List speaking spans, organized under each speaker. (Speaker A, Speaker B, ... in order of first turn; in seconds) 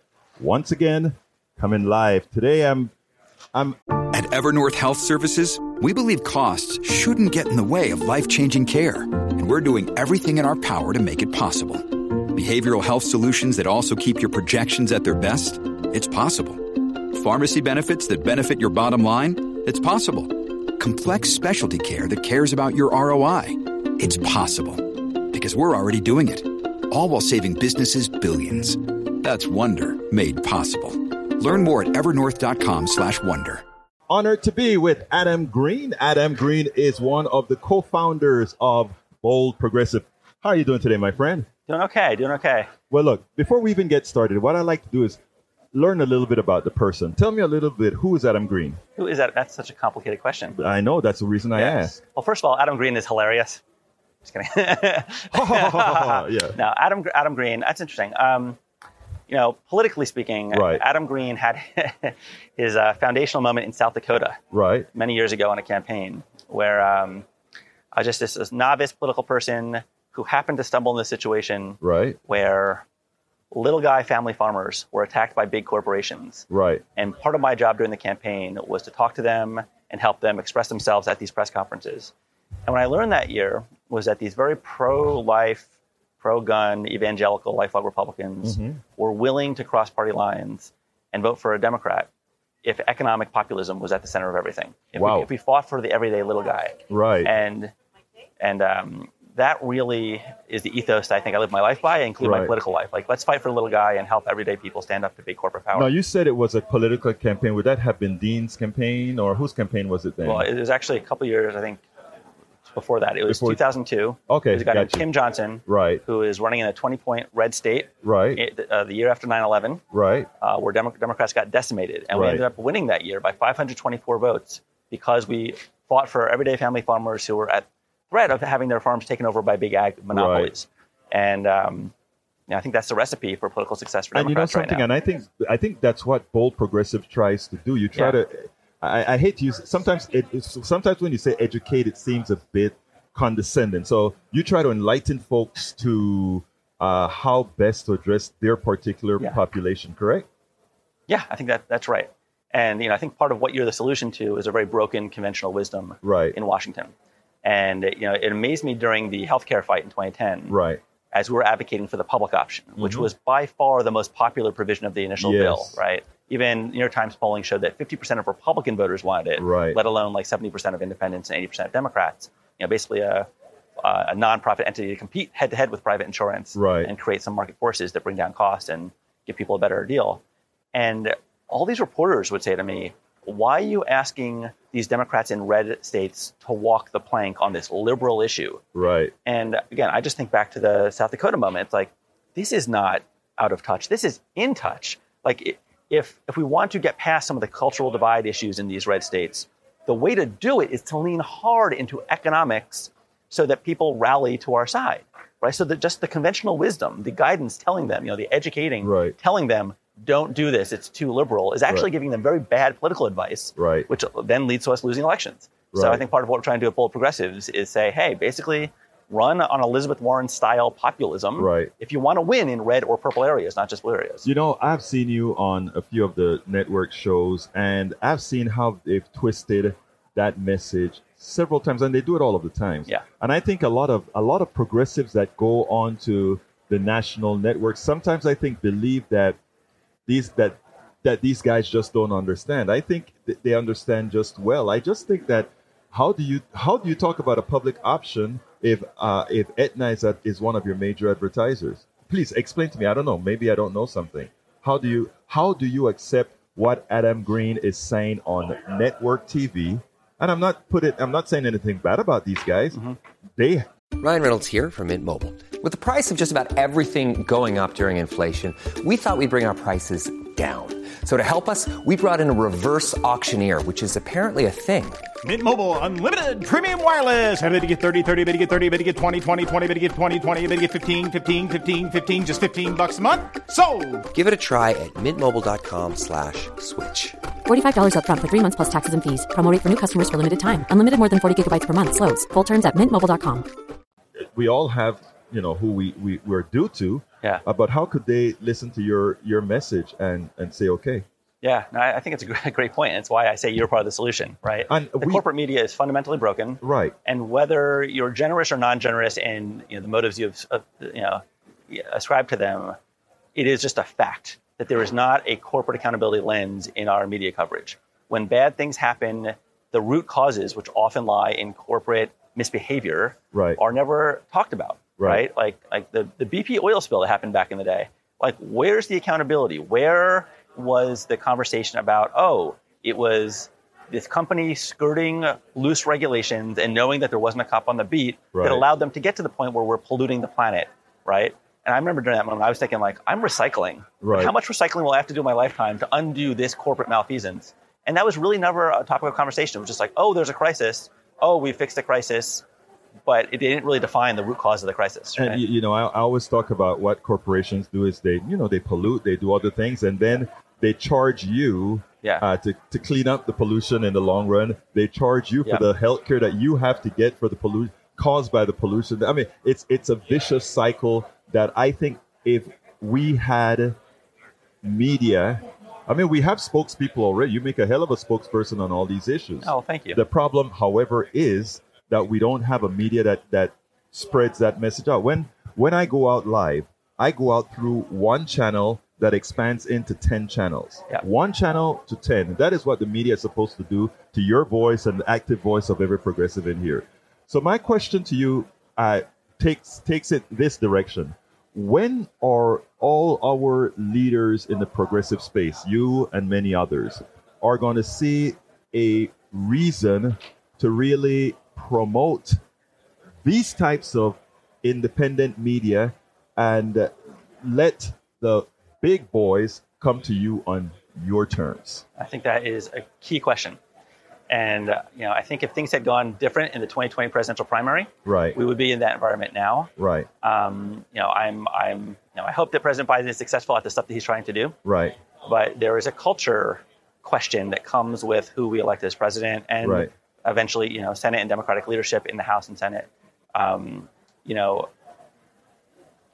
Speaker A: 0.4-2.9, 34.1-41.5, 42.9-45.2, 45.7-48.8, 50.5-52.0, 55.3-56.5, 60.5-60.8, 64.5-64.9, 71.8-72.2, 76.5-76.8, 88.4-88.8, 94.9-95.3, 96.9-97.3, 102.2-102.5, 105.7-110.5, 113.2-113.6, 114.3-115.1, 115.7-116.0, 118.0-118.4, 119.9-120.3, 122.1-122.4, 130.1-130.5, 134.1-150.2, 156.0-156.3, 160.5-160.8, 162.8-163.1, 165.2-165.8, 169.3-169.8, 176.5-176.9, 188.7-189.1, 208.8-209.1, 213.6-213.9, 215.7-216.0, 221.3-221.7, 224.2-239.4, 240.1-262.8, 263.4-263.6, 294.3-301.0, 304.7-305.2, 306.6-306.9, 323.3-323.6, 325.0-325.2, 338.3-338.6, 344.0-344.3, 355.2-373.7, 374.6-412.4, 413.2-416.9, 417.4-421.8, 428.0-428.4, 429.8-430.1, 434.6-434.9, 439.6-439.9
Speaker B: 4.1-33.6
Speaker C: 41.7-42.7, 49.0-50.5, 51.5-53.6, 54.2-58.6, 59.3-64.4, 64.9-67.2, 67.9-72.8, 73.5-82.1, 82.7-85.7, 86.2-92.1, 92.6-97.7, 98.4-105.9, 110.2-111.8, 112.7-119.8, 120.4-131.9, 132.5-134.9, 151.1-156.9, 157.4-160.6, 161.1-173.3, 173.8-180.2, 180.7-188.6, 189.2-224.3, 301.4-312.8, 313.3-352.4, 353.0-355.4, 379.4-380.0, 421.9-423.6, 424.3-429.7, 430.2-434.6, 435.2-444.7
Speaker D: 264.0-275.0, 284.1-287.2
Speaker E: 275.2-284.0
Speaker F: 287.4-293.4